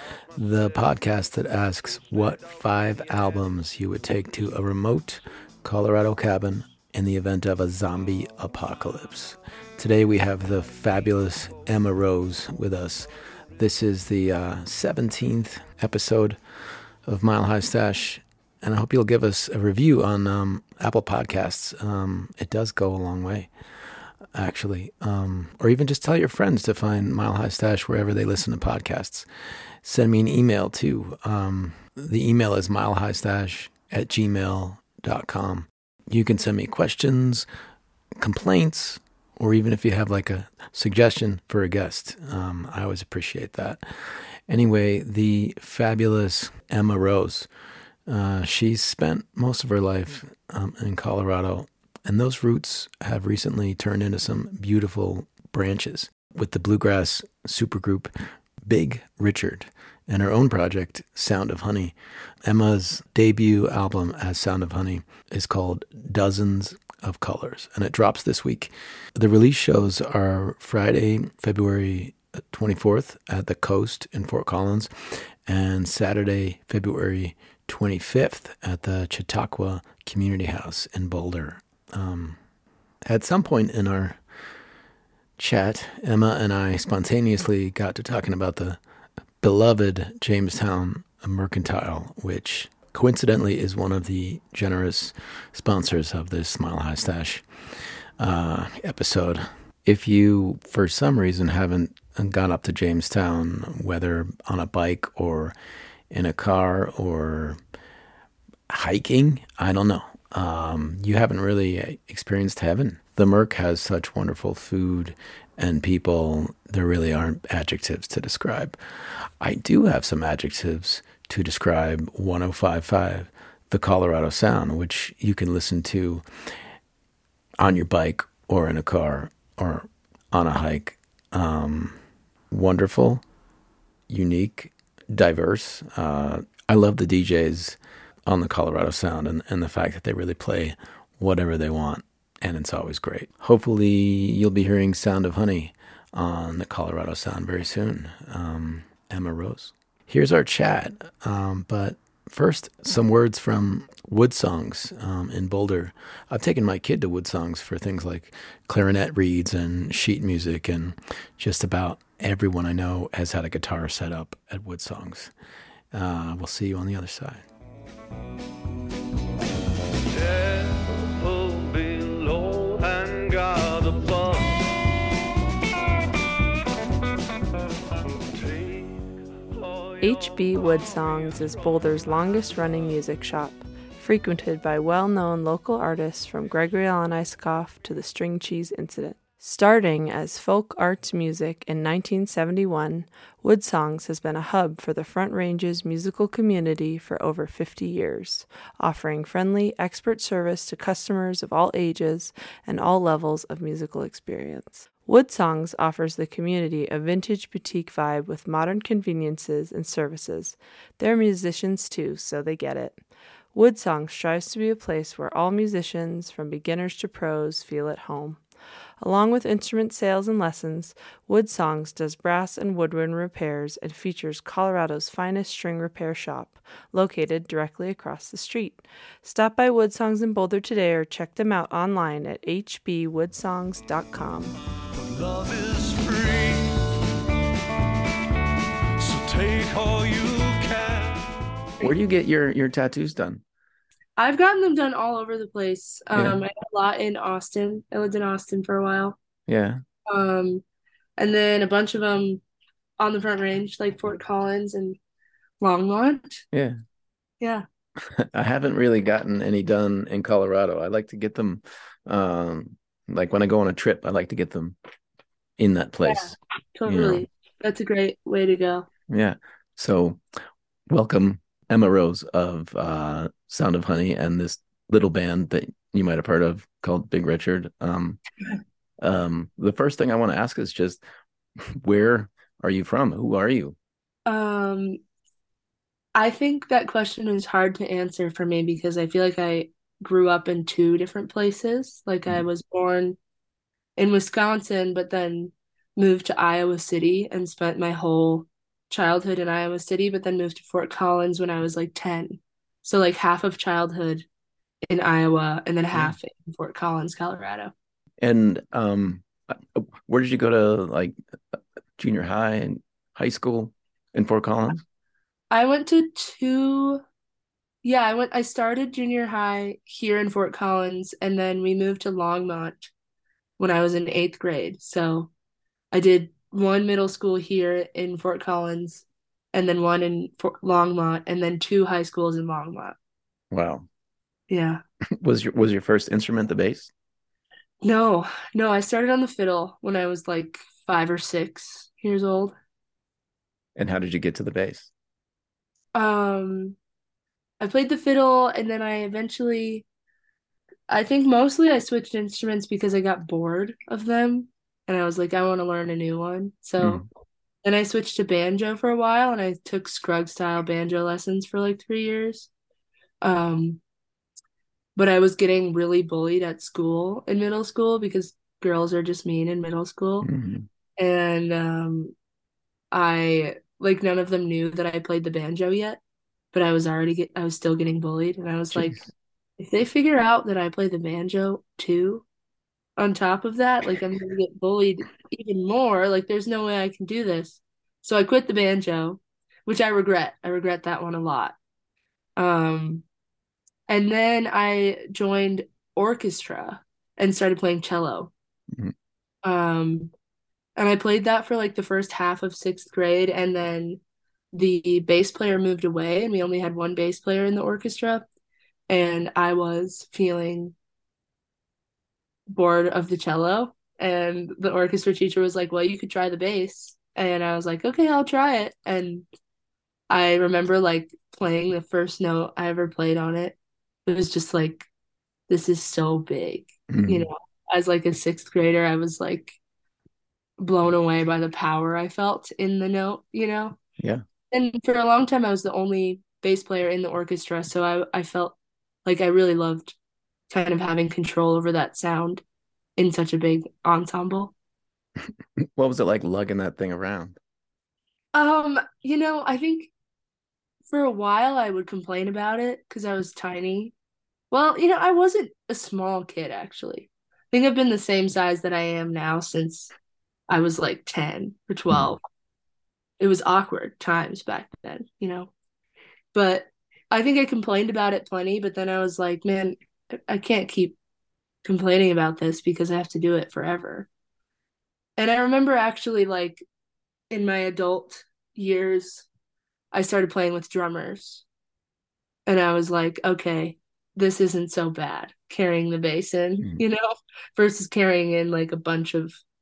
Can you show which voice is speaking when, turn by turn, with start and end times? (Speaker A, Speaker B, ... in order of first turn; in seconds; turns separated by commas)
Speaker A: 0.3-16.4, Speaker A: 17.1-23.5, Speaker A: 24.3-29.3, Speaker A: 29.8-37.5, Speaker A: 38.2-47.5, Speaker A: 48.1-82.4, Speaker A: 83.1-84.2, Speaker A: 85.4-88.8, Speaker A: 89.4-105.5, Speaker A: 106.1-107.6, Speaker A: 108.7-126.2, Speaker A: 127.6-132.0, Speaker A: 132.5-133.2, Speaker A: 134.1-165.3, Speaker A: 165.9-167.4, Speaker B: 170.0-174.8, Speaker B: 178.2-180.5, Speaker C: 180.0-213.0, Speaker C: 213.5-218.4, Speaker C: 219.0-234.6, Speaker B: 234.9-236.9, Speaker B: 239.0-241.4, Speaker A: 241.8-243.4, Speaker D: 244.2-249.2, Speaker A: 249.5-249.8, Speaker D: 250.1-250.6, Speaker D: 251.2-252.4, Speaker D: 253.0-255.0, Speaker D: 255.6-256.4, Speaker A: 256.5-256.8, Speaker A: 258.1-264.8, Speaker A: 265.6-267.3, Speaker D: 266.1-268.9, Speaker A: 269.1-270.2, Speaker A: 270.9-278.2, Speaker A: 279.0-281.0, Speaker A: 281.7-283.8, Speaker D: 284.3-285.0, Speaker D: 286.1-293.2, Speaker D: 294.0-304.2, Speaker D: 304.9-307.7, Speaker A: 308.2-314.8, Speaker D: 315.5-317.0, Speaker D: 317.8-322.9, Speaker D: 323.6-325.3, Speaker D: 325.9-333.0, Speaker A: 333.5-333.9, Speaker D: 334.5-334.8, Speaker A: 335.2-336.9, Speaker D: 337.8-342.6, Speaker A: 343.8-344.9, Speaker D: 345.9-346.8, Speaker D: 347.6-349.9, Speaker D: 350.9-357.0, Speaker A: 356.8-357.1, Speaker D: 357.6-362.5, Speaker D: 363.2-363.8, Speaker D: 365.0-370.3, Speaker A: 370.2-370.7, Speaker D: 371.0-372.1, Speaker D: 372.9-376.0, Speaker D: 376.5-379.0, Speaker A: 378.7-379.1, Speaker D: 379.6-382.2, Speaker D: 383.0-391.6, Speaker D: 392.4-393.0, Speaker D: 393.9-398.3, Speaker D: 399.4-400.1, Speaker D: 400.8-404.0, Speaker D: 404.5-408.2, Speaker D: 408.9-410.7, Speaker D: 412.5-419.2, Speaker D: 420.1-424.9, Speaker D: 425.5-429.6, Speaker A: 426.9-427.3, Speaker D: 430.6-433.8, Speaker D: 434.5-439.9, Speaker D: 440.5-442.4, Speaker D: 443.0-444.5, Speaker A: 445.6-447.4, Speaker D: 448.3-449.9, Speaker D: 450.9-453.9, Speaker D: 454.5-459.9, Speaker D: 460.5-462.2, Speaker D: 463.2-465.5, Speaker D: 466.3-471.0, Speaker D: 471.6-474.1, Speaker D: 475.2-476.6, Speaker D: 477.3-479.3, Speaker D: 479.9-481.4, Speaker D: 482.5-489.4